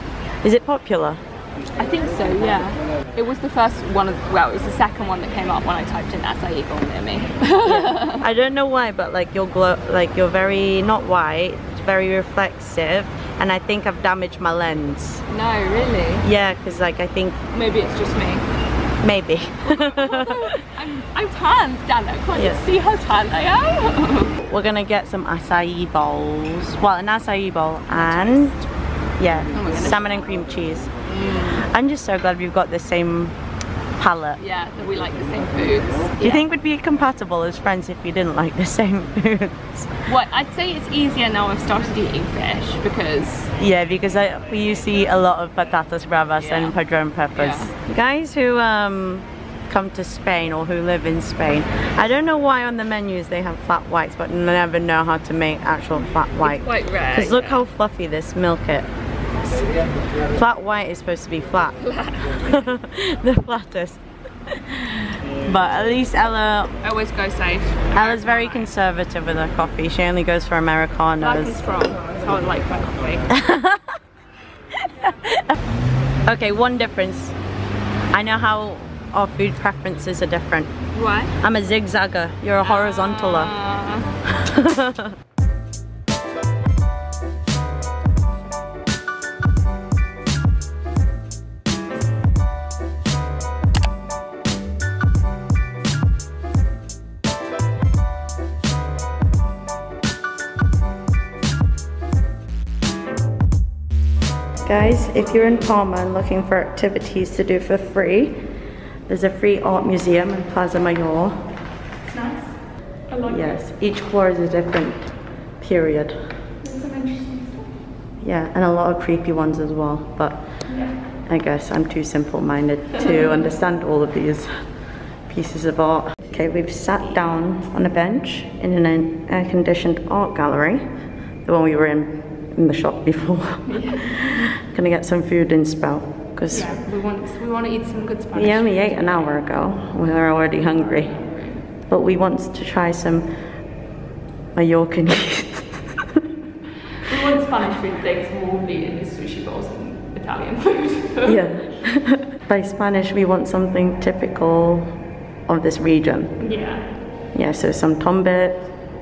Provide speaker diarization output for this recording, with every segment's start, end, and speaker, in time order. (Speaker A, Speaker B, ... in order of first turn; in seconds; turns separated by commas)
Speaker A: 0.4-1.2, Speaker B: 1.8-8.2, Speaker A: 7.7-15.2, Speaker B: 15.3-16.3, Speaker A: 16.2-17.4, Speaker B: 17.5-18.5, Speaker A: 19.0-20.6, Speaker B: 19.7-24.4, Speaker A: 22.4-22.7, Speaker A: 24.4-28.6, Speaker B: 27.9-28.6, Speaker A: 29.2-30.9, Speaker B: 29.5-30.2, Speaker B: 31.1-31.6, Speaker A: 31.4-33.4, Speaker A: 34.0-34.4, Speaker B: 34.4-36.5, Speaker A: 36.2-40.1, Speaker B: 40.1-43.5, Speaker A: 43.6-58.9, Speaker B: 46.4-46.8, Speaker B: 47.4-47.7, Speaker B: 56.4-57.6, Speaker A: 60.3-61.8, Speaker B: 61.8-62.5, Speaker A: 62.4-66.7, Speaker B: 66.8-68.7, Speaker A: 68.0-71.7, Speaker B: 71.2-73.3, Speaker A: 73.3-73.9, Speaker A: 74.8-75.5, Speaker A: 76.3-77.3, Speaker A: 78.1-80.7, Speaker B: 80.9-81.3, Speaker A: 81.4-83.5, Speaker B: 82.6-84.1, Speaker A: 84.4-85.1, Speaker A: 104.6-108.5, Speaker A: 109.1-111.3, Speaker B: 112.0-112.6, Speaker B: 113.1-113.7, Speaker A: 113.3-116.2, Speaker B: 116.6-117.8, Speaker A: 118.2-120.6, Speaker B: 120.7-121.0, Speaker A: 121.3-124.6, Speaker A: 125.3-130.8, Speaker A: 131.4-136.8, Speaker B: 133.7-134.5, Speaker B: 136.5-139.4, Speaker A: 138.3-141.1, Speaker B: 140.6-141.7, Speaker A: 141.9-143.3, Speaker A: 144.6-146.2, Speaker B: 147.1-151.8, Speaker A: 151.2-156.4, Speaker B: 156.4-157.0, Speaker A: 157.3-158.7